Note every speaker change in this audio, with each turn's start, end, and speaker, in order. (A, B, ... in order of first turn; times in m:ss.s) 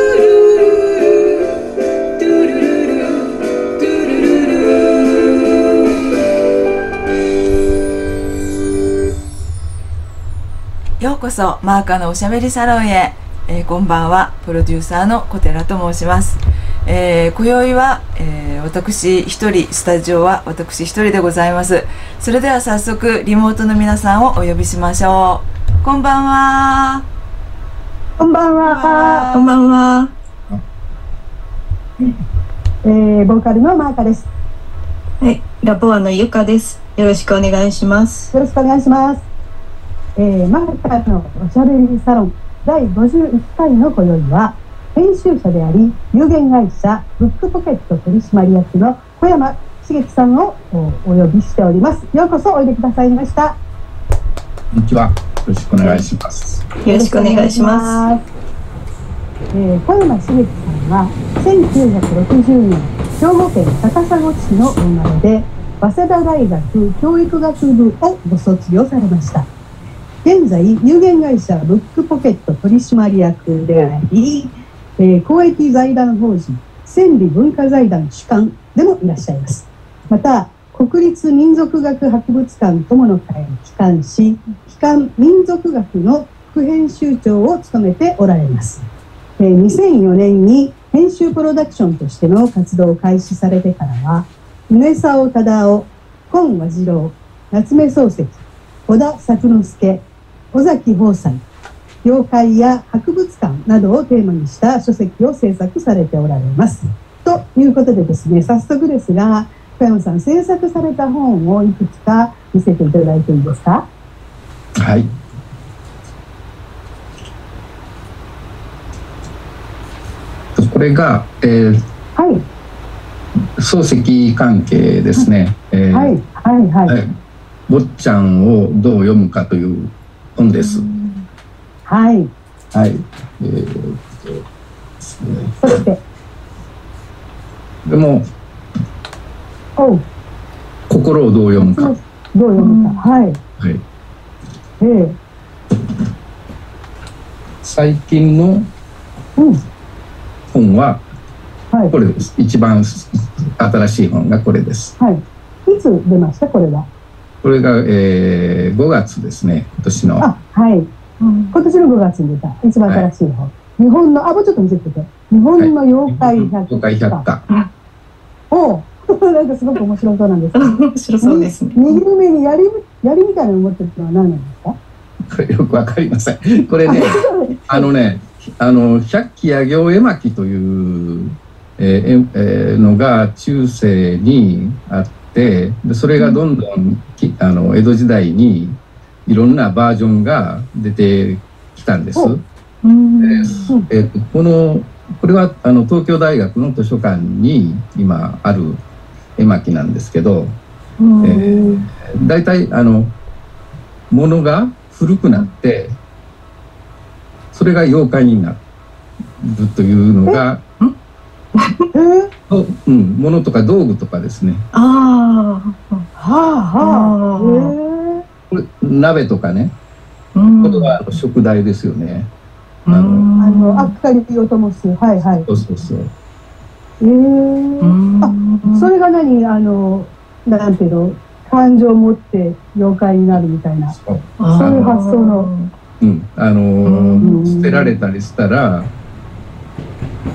0:11.0-0:27.1 A
0:28.2-0:29.3 B
0:28.6-0:29.5 A
0:29.3-0:30.1 C
0:32.8-0:34.3 B
0:35.2-0:38.3 C
0:38.3-0:39.2 B
0:40.2-0:53.6 B
0:54.7-0:56.6 D
0:56.8-0:58.0 C
0:56.9-0:58.2 B
0:59.5-1:09.5 B
1:10.2-1:28.8 B
1:29.4-1:41.4 B
1:42.0-1:53.8 B
1:54.8-1:55.1 D
2:00.5-2:01.8 D
2:02.2-2:02.4 B
2:03.6-2:06.1 D
2:05.9-2:07.0 B
2:06.9-2:07.1 D
2:07.7-2:10.8 D
2:10.6-2:11.2 C
2:11.9-2:12.3 B
2:12.7-2:14.4 D
2:15.0-2:15.6 D
2:15.6-2:16.0 B
2:17.8-2:18.2 D
2:19.8-2:20.0 B
2:20.9-2:21.9 D
2:21.6-2:23.4 B
2:22.6-2:23.0 C
2:24.8-2:25.2 B
2:27.6-2:28.7 D
2:30.5-2:31.0 D
2:31.9-2:35.0 D
2:35.0-2:36.9 B
2:37.4-2:40.3 D
2:40.2-2:40.9 B
2:41.2-2:41.6 C
2:41.5-2:47.2 B
2:45.6-2:47.4 D
2:48.5-2:54.8 B
2:50.6-2:52.0 C
2:55.3-3:12.4 D
2:56.9-2:57.8 B
3:12.8-3:13.7 C
3:13.2-3:18.8 D
3:19.4-3:20.5 D
3:21.0-3:21.5 C
3:21.2-3:23.1 D
3:21.3-3:21.8 B
3:24.1-3:26.0 D
3:27.5-3:28.6 D
3:29.4-3:30.6 D
3:31.6-3:31.9 C
3:31.9-3:32.3 B
3:32.5-3:34.6 D
3:34.7-3:36.1 C
3:36.2-3:38.2 B
3:36.8-3:37.8 C
3:38.5-3:39.7 D
3:40.3-3:41.0 C
3:40.6-3:42.3 D
3:42.9-3:43.9 C
3:42.9-3:43.3 D
3:43.4-3:45.5 B
3:45.4-3:46.1 D
3:47.0-3:53.9 B
3:47.8-3:48.9 C
3:53.9-3:54.9 D
3:54.4-3:55.7 C
3:54.6-3:55.5 B
3:56.0-3:58.9 D
3:56.9-3:57.3 C
3:57.2-3:57.9 B